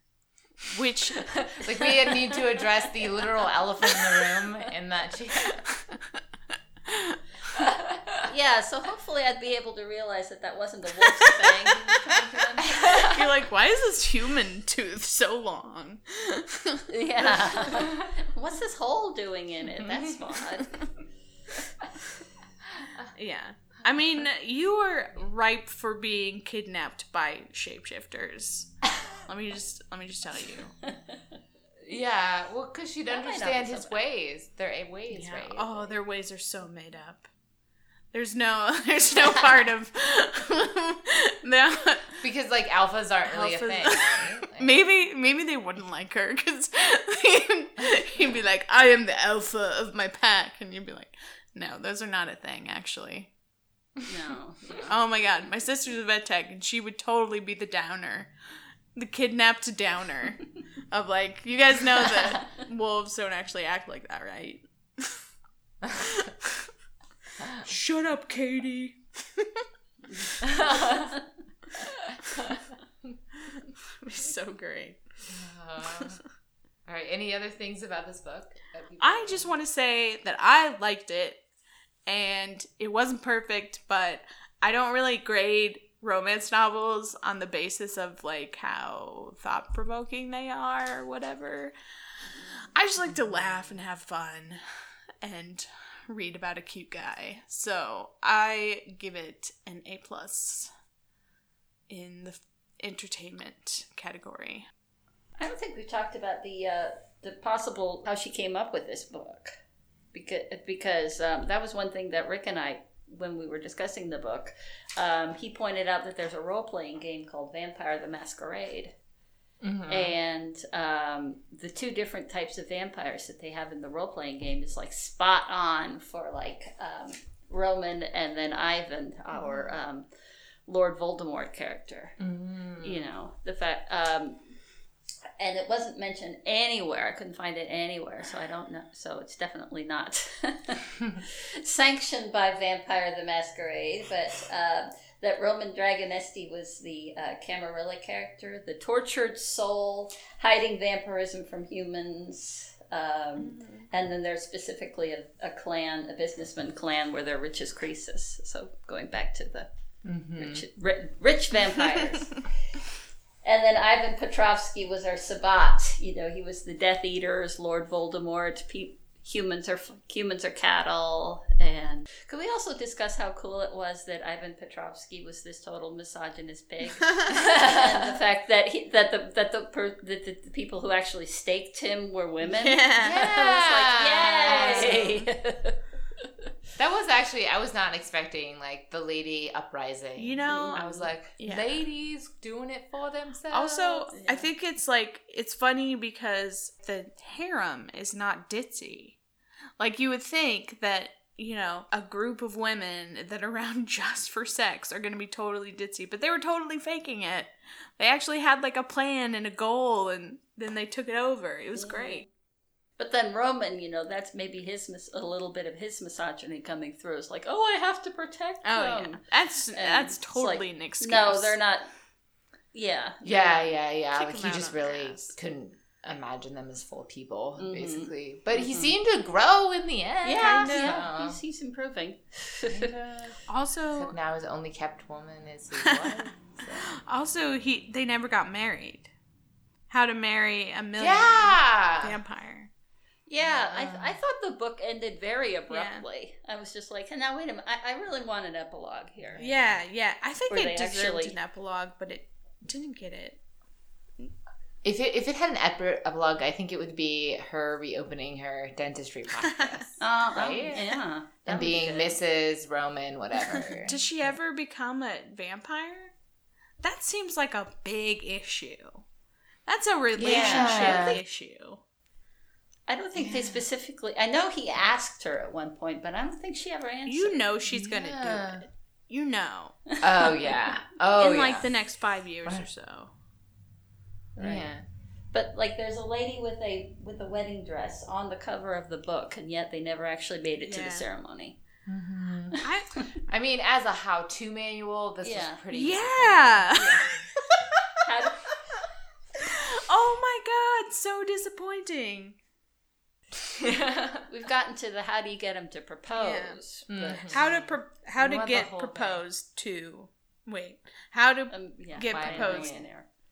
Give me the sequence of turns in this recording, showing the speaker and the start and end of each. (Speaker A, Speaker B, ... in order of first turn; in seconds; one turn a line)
Speaker A: 0.6-1.3
Speaker B: 1.6-5.6
Speaker C: 2.0-2.4
Speaker A: 5.6-6.2
Speaker A: 6.9-7.2
Speaker B: 7.5-8.3
Speaker C: 8.2-13.0
Speaker B: 12.6-13.2
Speaker A: 13.0-16.9
Speaker C: 16.9-20.9
Speaker B: 17.6-18.1
Speaker B: 19.8-20.4
Speaker A: 23.1-30.8
Speaker C: 30.8-31.2
Speaker B: 31.8-35.9
Speaker C: 33.1-34.0
Speaker A: 35.1-37.3
Speaker A: 38.1-42.2
Speaker B: 42.2-44.8
Speaker A: 43.2-53.3
Speaker C: 54.0-54.9
Speaker A: 54.8-58.3
Speaker A: 59.0-65.2
Speaker A: 66.0-66.7
Speaker B: 67.4-67.6
Speaker A: 67.6-69.6
Speaker C: 70.1-71.2
Speaker B: 70.4-71.2
Speaker B: 72.1-73.1
Speaker A: 73.5-76.2
Speaker B: 75.3-76.2
Speaker B: 76.9-79.5
Speaker A: 79.0-81.4
Speaker A: 82.1-91.7
Speaker A: 92.7-94.6
Speaker A: 95.2-100.7
Speaker A: 101.9-104.6
Speaker C: 105.4-109.6
Speaker C: 110.1-118.9
Speaker B: 119.6-120.2
Speaker C: 119.9-130.1
Speaker C: 130.7-132.2
Speaker B: 132.2-133.1
Speaker C: 132.8-134.4
Speaker C: 135.4-159.7
Speaker A: 153.4-153.9
Speaker B: 160.0-160.6
Speaker C: 160.4-162.5
Speaker C: 163.4-186.3
Speaker A: 177.0-177.3
Speaker B: 177.3-178.2
Speaker A: 182.4-183.2
Speaker B: 183.0-185.1
Speaker A: 184.5-185.3
Speaker B: 186.8-194.1
Speaker A: 190.2-190.9
Speaker C: 190.7-191.1
Speaker A: 191.4-191.8
Speaker A: 193.5-199.2
Speaker C: 194.1-194.5
Speaker A: 199.8-212.2
Speaker C: 211.8-212.3
Speaker C: 213.0-221.9
Speaker A: 218.6-221.6
Speaker C: 222.7-223.7
Speaker B: 223.2-231.4
Speaker A: 224.1-225.3
Speaker C: 227.6-228.9
Speaker C: 230.2-232.9
Speaker A: 230.4-231.0
Speaker B: 232.6-233.4
Speaker A: 233.5-234.1
Speaker B: 233.9-236.9
Speaker A: 235.8-239.1
Speaker A: 239.9-242.7
Speaker B: 241.0-242.2
Speaker C: 243.3-249.5
Speaker B: 243.4-244.2
Speaker A: 245.7-246.0
Speaker B: 249.2-249.6
Speaker A: 249.4-253.4
Speaker C: 250.5-251.4
Speaker B: 254.8-264.0
Speaker A: 259.5-259.8
Speaker C: 260.0-262.2
Speaker A: 263.5-266.1
Speaker A: 266.8-269.1
Speaker A: 269.7-271.8
Speaker B: 270.2-271.2
Speaker C: 270.2-271.2
Speaker C: 272.9-277.4
Speaker B: 273.1-273.6
Speaker A: 277.1-279.8
Speaker B: 277.7-278.7
Speaker C: 279.9-280.7
Speaker B: 280.0-281.7
Speaker A: 281.2-283.1
Speaker C: 284.4-284.7
Speaker B: 284.4-284.8
Speaker C: 285.3-291.6
Speaker A: 290.6-291.1
Speaker B: 291.9-292.6
Speaker A: 292.6-293.0
Speaker B: 293.3-297.2
Speaker C: 295.2-295.6
Speaker A: 295.7-297.9
Speaker C: 296.8-297.1
Speaker C: 298.1-298.9
Speaker A: 299.4-302.4
Speaker B: 303.5-304.3
Speaker C: 304.3-307.4
Speaker A: 306.1-306.6
Speaker B: 306.9-309.2
Speaker A: 307.2-312.8
Speaker C: 311.5-313.1
Speaker B: 312.1-312.8